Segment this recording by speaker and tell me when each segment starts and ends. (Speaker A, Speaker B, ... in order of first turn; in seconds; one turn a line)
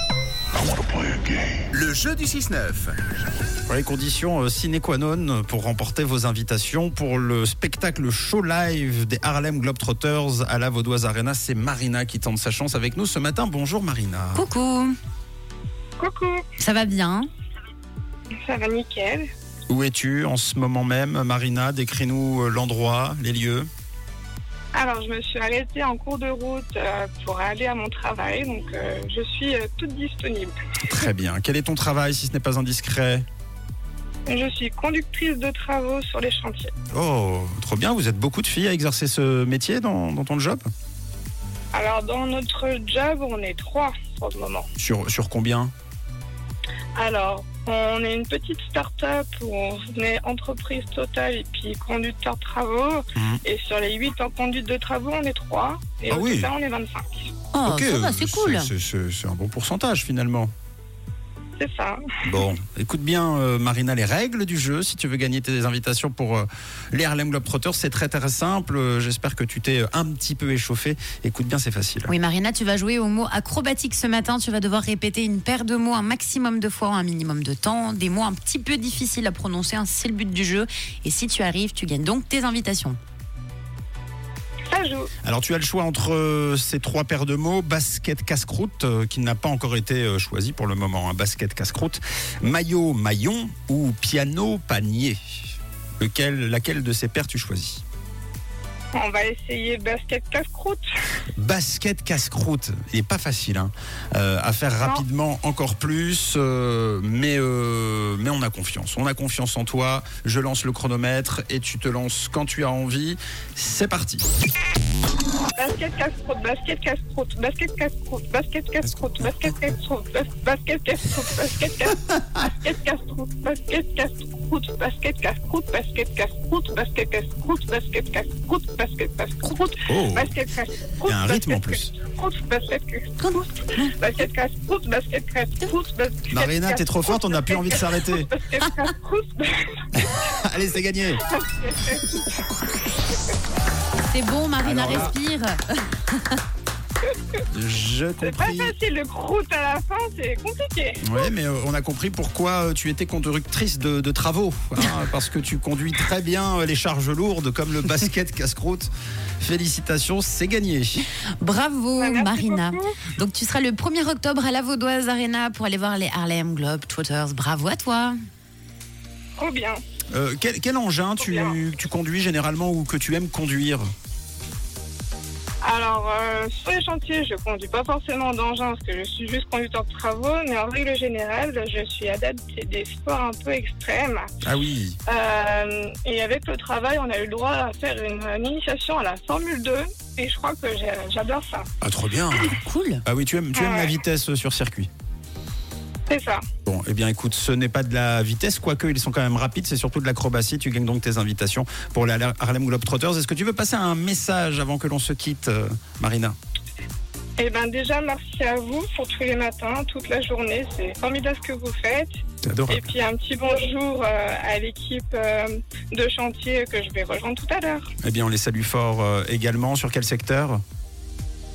Speaker A: 1.7-3.0
Speaker A: 3.7-14.5
Speaker B: 14.3-14.9
Speaker C: 16.0-16.4
Speaker B: 16.6-17.3
Speaker C: 18.4-19.3
Speaker A: 19.7-23.7
Speaker C: 24.7-30.6
Speaker A: 30.8-33.2
Speaker C: 34.3-36.7
Speaker A: 36.9-40.7
Speaker C: 41.7-44.7
Speaker A: 44.8-45.7
Speaker C: 47.0-57.3
Speaker A: 56.1-56.5
Speaker B: 57.5-58.7
Speaker A: 57.6-60.5
Speaker C: 61.6-62.0
Speaker A: 62.2-72.1
Speaker B: 72.1-83.0
Speaker C: 84.7-85.1
Speaker A: 85.2-95.2
Speaker A: 96.0-97.8
Speaker C: 98.9-100.8
Speaker A: 101.4-114.3
Speaker C: 115.6-139.8
Speaker A: 129.9-130.3
Speaker A: 131.1-131.9
Speaker B: 133.2-133.9
Speaker A: 136.3-138.3
Speaker A: 139.9-141.2
Speaker C: 141.2-142.2
Speaker B: 144.1-146.4
Speaker A: 144.6-145.1
Speaker A: 147.5-148.7
Speaker C: 148.2-151.3
Speaker A: 151.0-161.1
Speaker B: 161.4-168.2
Speaker C: 162.0-163.0
Speaker C: 169.4-169.8
Speaker A: 170.1-173.9
Speaker C: 171.2-171.6
Speaker C: 175.6-184.3
Speaker A: 184.4-185.0
Speaker C: 185.1-191.7
Speaker A: 191.8-194.9
Speaker B: 192.5-193.0
Speaker C: 193.5-194.0
Speaker C: 196.1-196.4
Speaker A: 196.7-206.3
Speaker C: 207.4-212.1
Speaker A: 212.4-212.9
Speaker C: 212.7-217.9
Speaker A: 218.0-220.6